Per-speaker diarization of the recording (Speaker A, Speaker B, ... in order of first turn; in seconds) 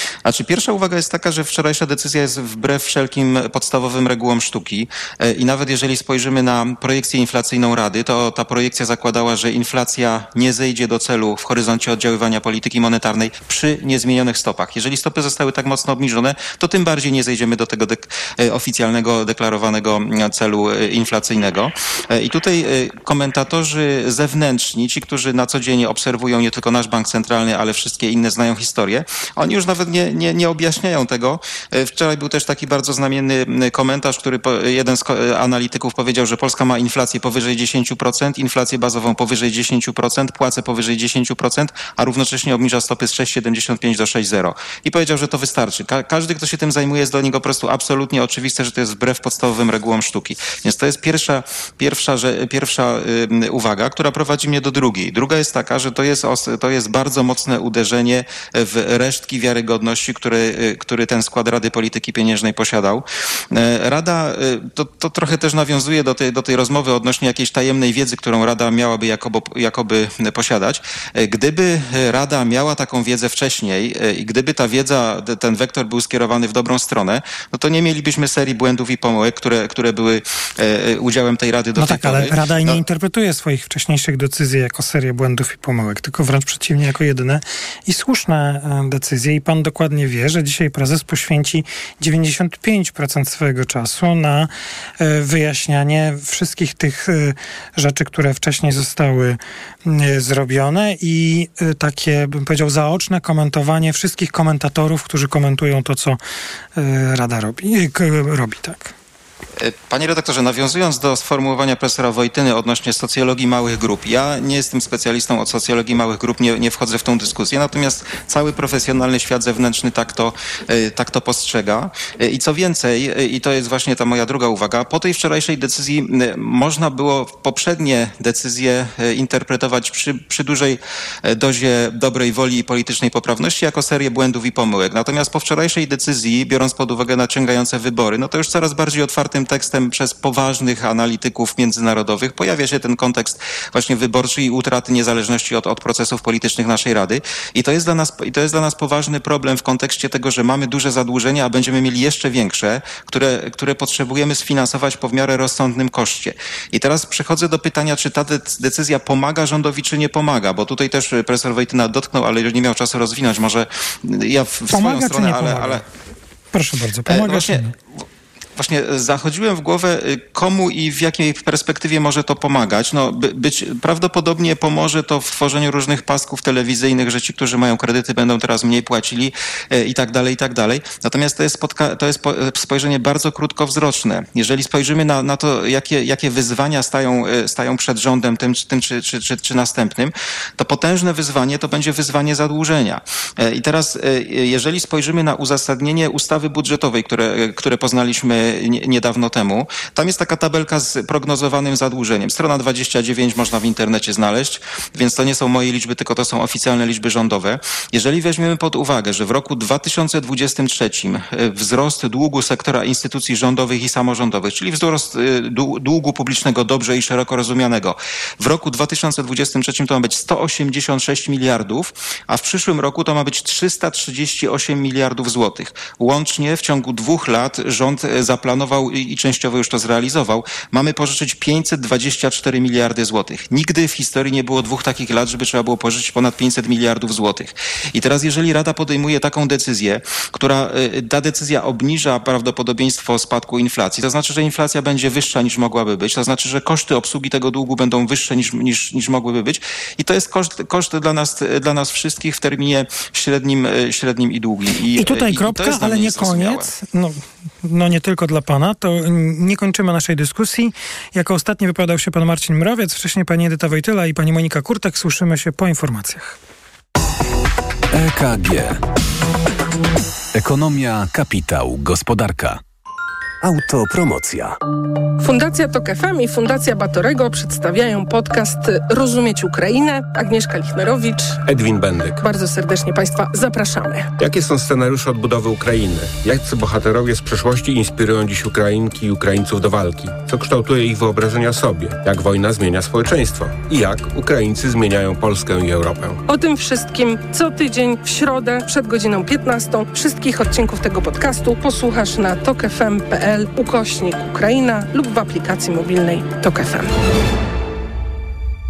Speaker A: 0.2-82.8, 109.6-165.8, 167.1-167.7, 168.6-256.7
Speaker B: 81.8-106.2, 106.8-108.9, 164.7-165.8, 166.5-167.7, 254.9-266.4
Speaker C: 267.9-268.8, 270.3-272.6, 273.4-274.6
Speaker D: 275.2-281.4, 282.2-284.1, 296.2-306.9
Speaker E: 281.5-282.1, 284.2-296.0